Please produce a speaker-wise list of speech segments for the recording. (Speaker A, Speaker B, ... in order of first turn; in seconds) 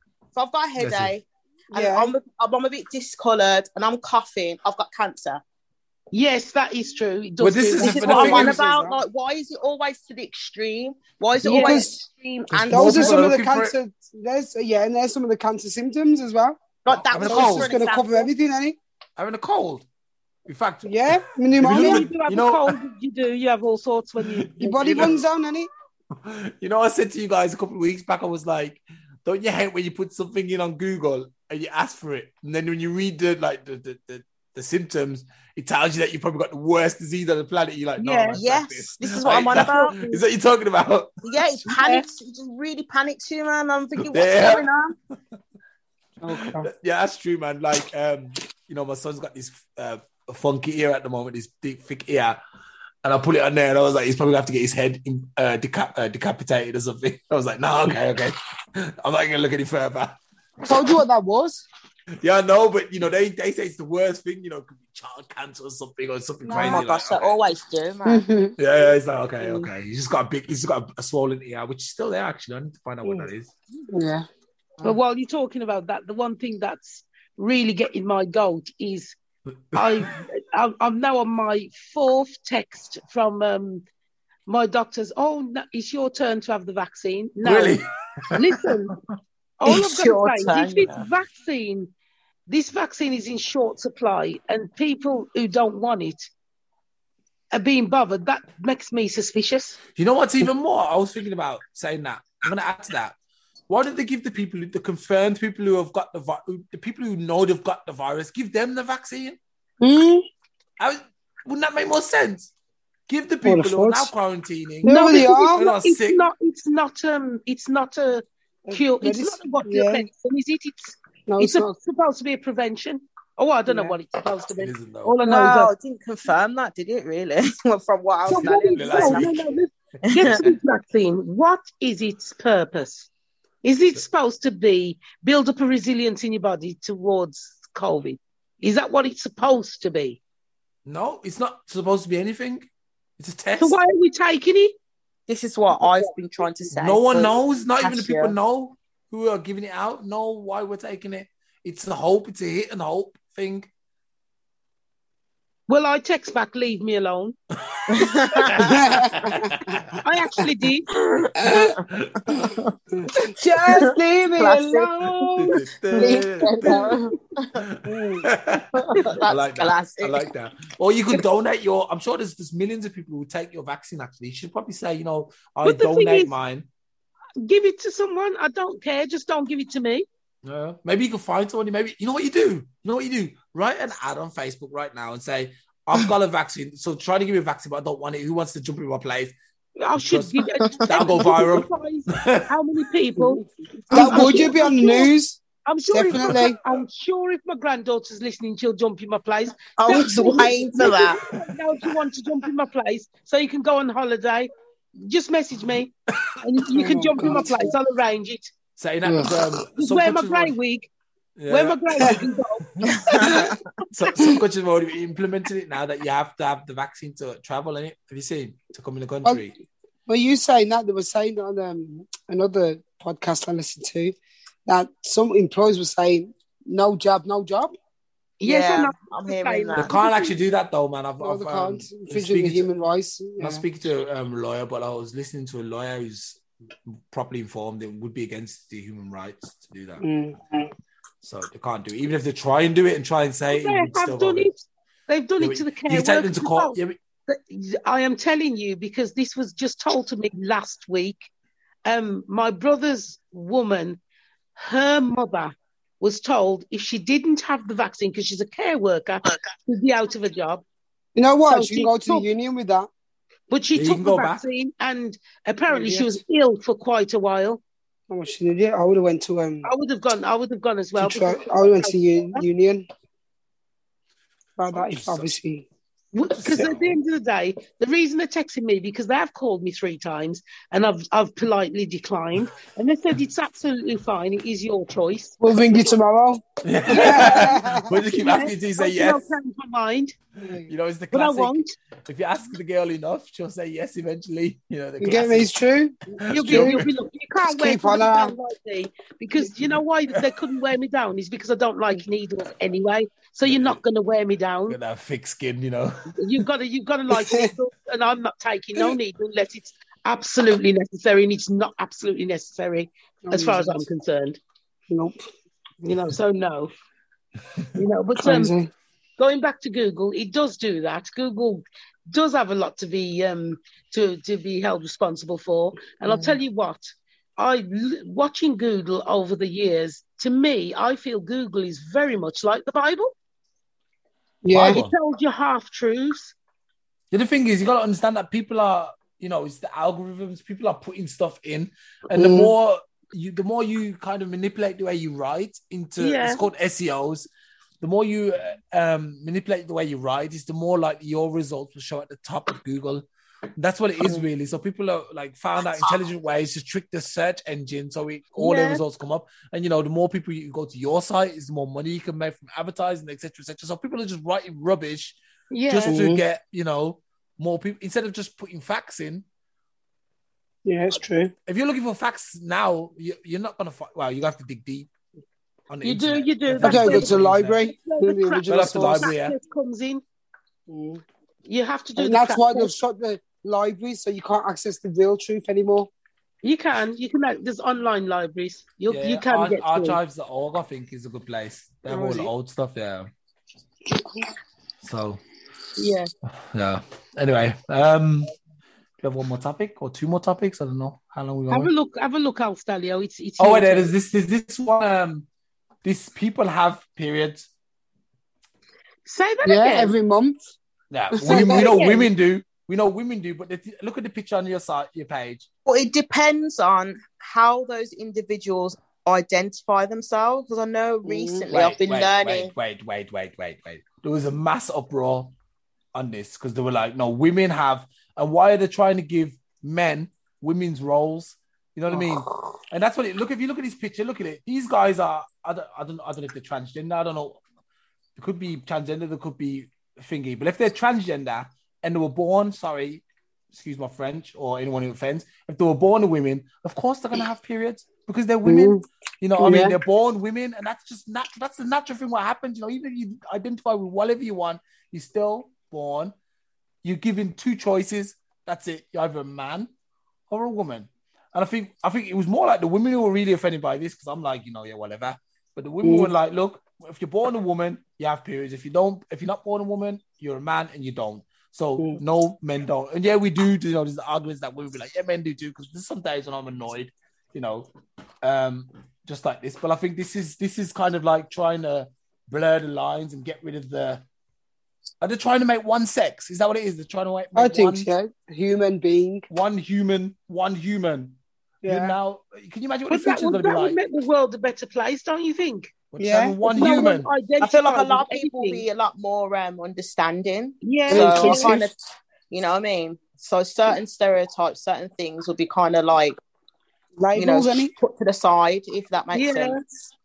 Speaker A: 0.3-5.4, 7.8-13.3, 16.8-18.3, 38.3-40.0, 41.2-45.0, 66.5-68.2, 89.6-91.0, 125.2-129.3, 130.1-130.4, 145.3-148.3, 157.9-158.8, 161.0-162.7, 163.2-167.6, 168.8-170.3, 190.7-191.3, 199.8-201.2, 212.9-213.6, 228.4-229.9, 395.8-396.1, 415.6-422.5, 497.4-501.7, 502.3-506.2, 507.1-509.6
Speaker B: 0.8-1.1, 7.4-8.6, 12.5-13.7, 16.9-17.7, 19.2-19.8, 20.4-22.7, 24.6-25.2, 26.2-41.1, 44.0-44.7, 46.3-52.4, 53.0-60.2, 62.2-67.3, 68.6-73.5, 79.7-80.1, 87.4-88.7, 100.0-103.1, 103.7-109.4, 110.8-112.5, 113.1-116.2, 124.6-125.2, 128.4-129.4, 140.8-142.7, 143.2-143.8, 146.8-153.7, 157.8-160.0, 161.5-162.5, 165.3-166.9, 167.6-176.7, 180.4-189.3, 189.9-192.5, 194.0-194.3, 208.8-210.5, 211.4-212.2, 212.8-219.5, 229.8-232.7, 233.4-236.4, 237.1-240.0, 241.2-244.5, 245.4-246.9, 263.7-264.4, 274.7-275.3, 276.3-276.9, 286.6-289.2, 290.7-295.5, 296.2-296.9, 303.4-303.8, 304.7-306.1, 334.5-334.9, 337.1-347.3, 347.8-353.0, 353.6-365.2, 365.7-369.2, 371.5-374.9, 375.7-377.6, 378.5-379.3, 388.9-393.1, 394.8-395.2, 396.5-398.3, 399.0-401.7, 403.4-405.2, 405.8-407.5, 410.9-415.5, 421.5-425.3, 425.9-437.4, 438.1-456.1, 456.8-459.7, 460.3-477.7, 478.2-484.0, 485.0-487.9, 489.3-493.8, 495.9-497.1
Speaker C: 1.7-2.1, 8.1-9.0, 11.4-12.0, 12.7-16.6, 17.2-18.8, 20.8-22.0, 24.6-25.7, 46.2-46.7, 60.6-61.6, 66.4-66.8, 68.0-68.5, 73.9-74.2, 109.8-110.2, 113.4-114.1, 114.8-115.6, 118.6-120.1, 121.3-121.7, 123.7-124.0, 158.6-159.6, 161.4-161.7, 162.9-166.2, 167.8-168.3, 193.2-195.4, 195.9-196.6, 206.7-207.7, 209.0-209.3, 220.1-227.7, 231.2-233.6, 240.0-240.7, 261.1-262.9, 265.7-266.1, 268.1-269.7, 271.0-272.9, 274.6-275.6, 285.4-288.0, 290.4-290.7, 295.0-296.8, 297.5-298.3, 307.1-307.5, 313.2-313.8, 314.9-315.2, 318.2-318.7, 334.4-334.8, 342.1-342.5, 365.9-366.2, 370.6-371.3, 376.6-379.1, 380.7-381.0, 382.0-385.9, 391.9-392.2, 393.9-394.2, 409.4-410.5, 411.2-411.9, 421.0-421.4, 448.4-448.8, 449.4-449.8, 465.8-466.1, 487.3-489.2, 491.6-491.9, 496.0-496.4, 500.9-501.7, 507.0-507.7
Speaker D: 6.1-8.5, 11.4-11.8, 21.6-25.1, 38.0-38.4, 39.5-40.2, 41.6-42.0, 74.8-79.2, 79.7-83.8, 84.5-87.8, 88.3-89.0, 89.6-91.9, 92.5-96.3, 97.5-99.8, 114.8-125.7, 128.3-133.1, 133.6-140.2, 143.6-144.7, 155.7-157.3, 160.0-160.9, 175.6-176.3, 177.4-180.1, 189.8-195.1, 195.7-208.5, 209.8-210.9, 211.5-213.5, 228.4-230.3, 243.5-251.3, 251.8-254.0, 254.6-260.6, 261.5-262.2, 263.5-267.6, 269.6-272.4, 276.1-285.4, 286.9-287.5, 288.1-290.1, 291.1-291.7, 296.2-304.8, 306.1-314.4, 315.8-316.7, 317.7-318.5, 319.2-333.1, 334.6-336.3, 346.0-346.4, 358.4-358.8, 365.5-366.0, 375.8-380.0, 381.4-382.7, 386.4-390.0, 401.5-403.9, 409.1-409.9, 411.2-412.1, 492.9-495.7, 496.4-498.6, 500.6-501.5, 509.1-509.6